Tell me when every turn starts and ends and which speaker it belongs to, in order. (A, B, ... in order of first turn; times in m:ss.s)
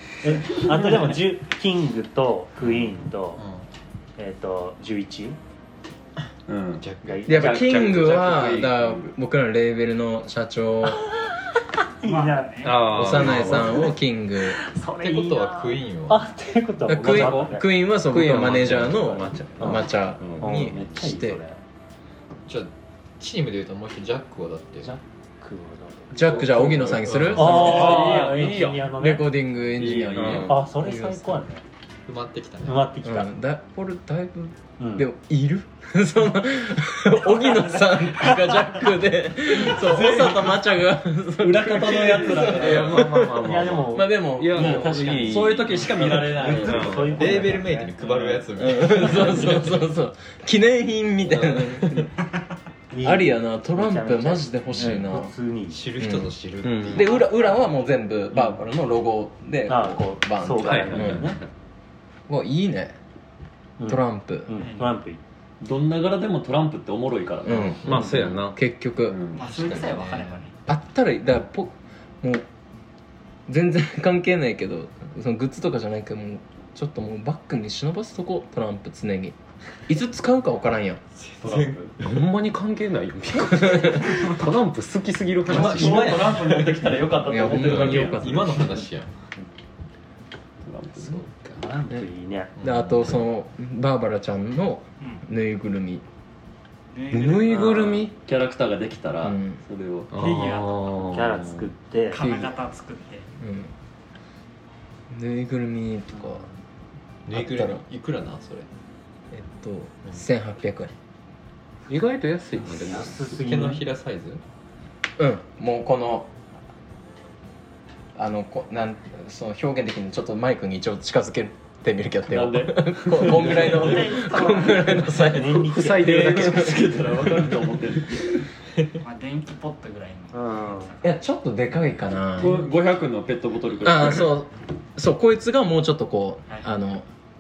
0:00.2-0:03.4 A
0:02.6-0:03.6 B
0:04.2-0:05.4 A
0:06.5-0:09.2 C
0:06.8-0:07.4 B
0:07.0-0:07.9 A
0:07.2-0:11.1 D
0:07.6-0:08.6 E
0:12.0-0:17.7 A
0:12.0-0:13.0 F
0:12.6-0:13.8 E
0:12.9-0:14.6 D
0:15.0-0:16.3 B
0:16.9-0:21.4 D
0:17.2-0:17.5 E
0:18.0-0:20.5 E
0:19.6-0:21.6 A
0:22.5-0:24.9 B
0:24.8-0:29.3 A
0:26.1-0:27.7 D
0:26.2-0:28.0 B
0:26.4-0:28.8 C
0:27.4-0:28.8 E
0:29.0-0:31.4 D
0:29.8-0:30.4 C
0:30.1-0:30.6 E
0:30.4-0:31.6 A
0:32.1-0:32.9 B
0:32.6-0:33.4 A
0:33.0-0:45.4 D
0:34.8-0:35.1 A
0:39.5-0:40.6 C
0:41.4-0:43.0 C
0:42.1-0:47.1 E
0:43.4-0:44.2 A
0:44.5-0:49.5 C
0:45.6-0:46.4 B
0:46.2-0:48.0 A
0:47.1-0:49.8 B
0:48.6-0:52.1 D
0:51.2-0:52.1 B
0:52.9-0:55.9 A
0:53.0-0:55.3 D
0:55.7-0:57.2 B
0:56.0-0:56.3 D
0:56.6-0:57.2 E
0:56.9-1:01.3 D
0:59.7-1:01.4 A
1:00.6-1:01.4 E
1:02.3-1:03.0 D
1:03.8-1:05.2 A
1:03.9-1:04.5 D
1:04.6-1:05.0 F
1:05.6-1:08.3 C
1:07.5-1:09.2 D
1:07.5-1:08.6 E
1:07.9-1:08.4 A
1:09.0-1:09.5 C
1:09.3-1:10.6 F
1:09.4-1:10.4 B
1:10.7-1:12.5 D
1:13.5-1:19.4 D
1:19.9-1:21.0 D
1:21.2-1:21.8 B
1:21.4-1:22.0 C
1:22.0-1:26.6 E
1:23.4-1:24.1 D
1:25.5-1:26.4 B
1:25.5-1:28.5 C
1:27.2-1:28.8 D
1:27.6-1:29.1 B
1:30.6-1:31.2 C
1:31.0-1:31.6 B
1:31.4-1:32.5 A
1:32.6-1:33.3 B
1:32.6-1:36.0 D
1:36.9-1:37.9 F
1:37.1-1:38.1 E
1:37.5-1:40.5 C
1:39.2-1:39.6 D
1:40.1-1:41.7 E
1:40.1-1:41.0 F
1:41.0-1:42.2 A
1:42.1-1:43.3 F
1:42.2-1:42.6 D
1:43.4-1:43.7 D
1:45.1-1:46.5 D
1:46.1-1:46.5 A
1:47.3-1:48.7 B
1:47.3-1:47.8 D
1:49.3-1:50.9 D
1:51.9-1:53.2 E
1:52.6-1:53.9 A
1:53.3-1:54.4 B
1:55.2-1:56.3 D
1:58.2-2:06.8 D
2:02.2-2:04.2 C
2:03.5-2:06.5 A
2:05.7-2:08.5 C
2:09.0-2:11.0 F
2:10.3-2:11.0 A
2:11.0-2:12.6 D
2:12.4-2:14.3 C
2:13.8-2:17.1 D